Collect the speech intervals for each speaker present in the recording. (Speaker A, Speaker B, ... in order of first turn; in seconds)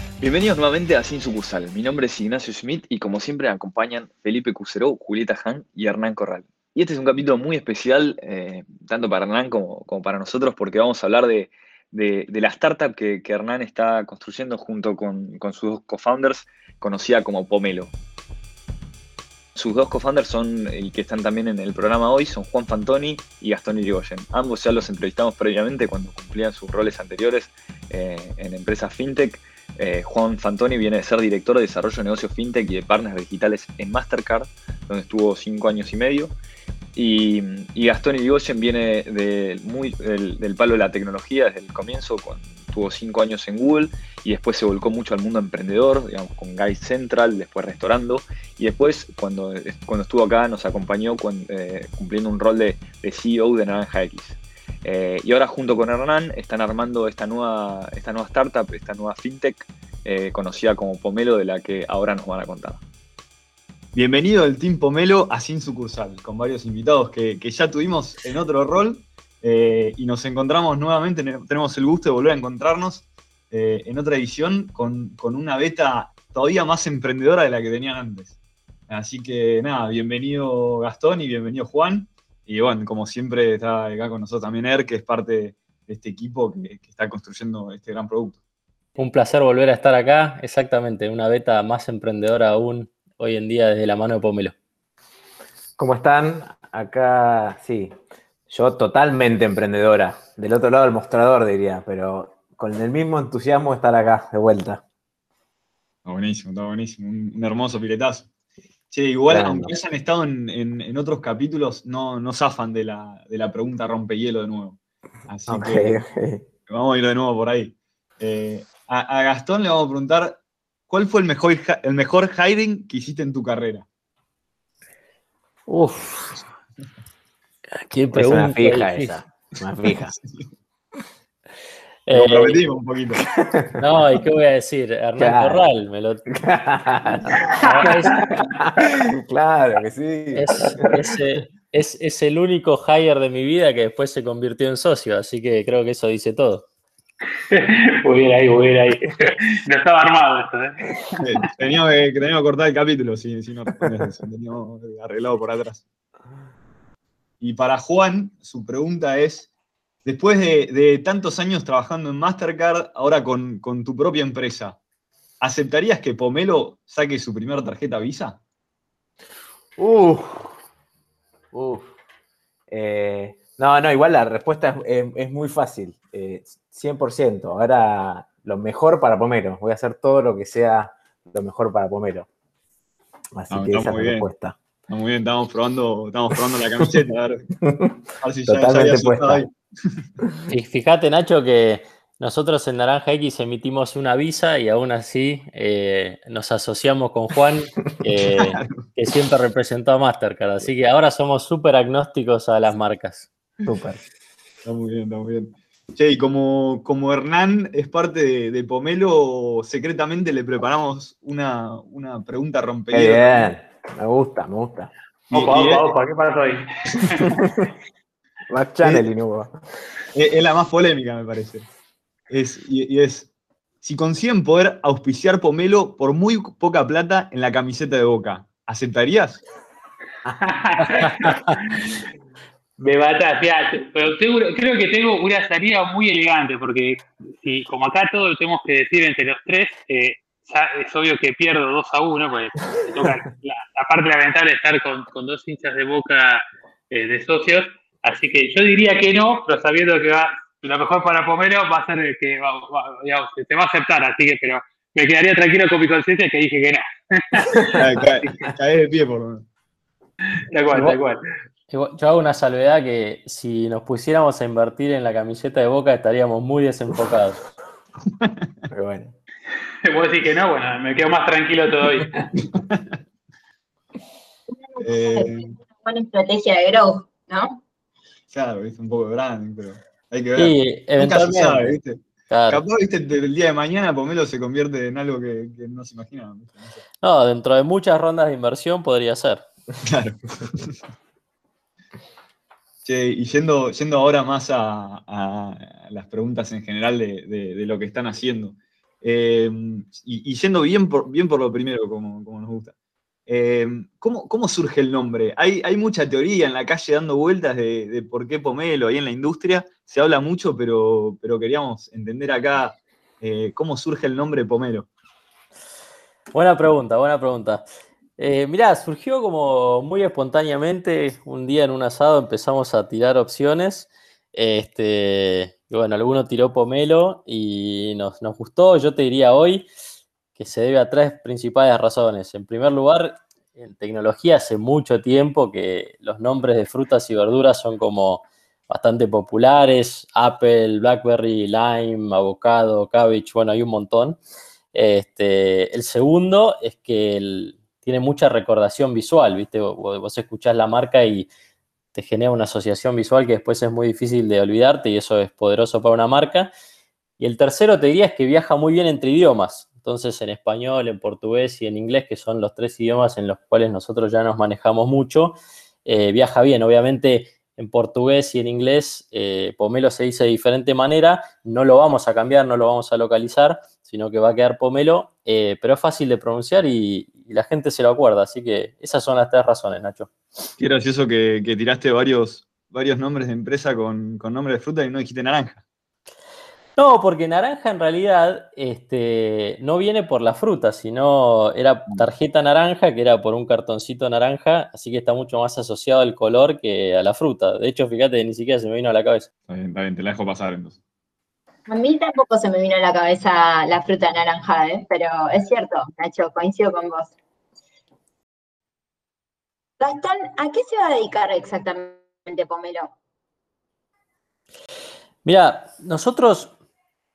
Speaker A: 0.2-17.9, 19.5-36.3, 36.9-62.8
Speaker B: 63.9-78.4, 78.9-88.4, 106.0-108.3, 108.9-116.0, 116.7-123.8, 132.1-133.3, 151.2-155.8, 157.4-159.5, 160.0-164.8, 165.4-168.4, 183.5-184.3, 184.9-187.5, 188.2-189.5, 204.6-213.5, 215.3-215.8, 220.1-221.7, 222.3-223.3, 223.8-229.4, 257.8-259.5, 272.5-272.8, 274.8-275.5, 278.3-286.8, 289.8-290.8, 292.8-302.7, 303.3-314.9, 380.6-385.6, 399.5-400.8
Speaker C: 89.0-94.5, 125.7-126.4, 127.7-129.2, 132.1-132.6, 133.8-136.3, 137.6-138.2, 140.3-146.7, 190.5-203.3, 261.7-267.4, 280.4-281.8, 282.3-282.6, 287.0-289.4, 316.3-317.6, 318.2-329.7, 330.3-344.2, 344.7-351.3, 351.9-356.5, 357.2-380.1, 386.8-399.3, 415.2-416.5
Speaker D: 95.8-97.9, 98.5-104.8, 109.3-109.8, 115.5-116.4, 128.1-130.1, 133.3-133.8, 135.2-135.6, 136.3-140.9, 169.8-170.5, 171.5-171.9, 172.7-182.3, 183.3-184.6, 188.5-189.4, 203.6-204.0, 212.9-214.9, 218.5-219.6, 268.7-269.1
Speaker E: 137.4-138.3, 147.5-151.4, 215.3-217.3, 230.4-231.8, 232.8-257.8, 260.3-261.2, 269.8-272.2
Speaker F: 274.5-277.6, 401.7-407.1, 409.8-412.9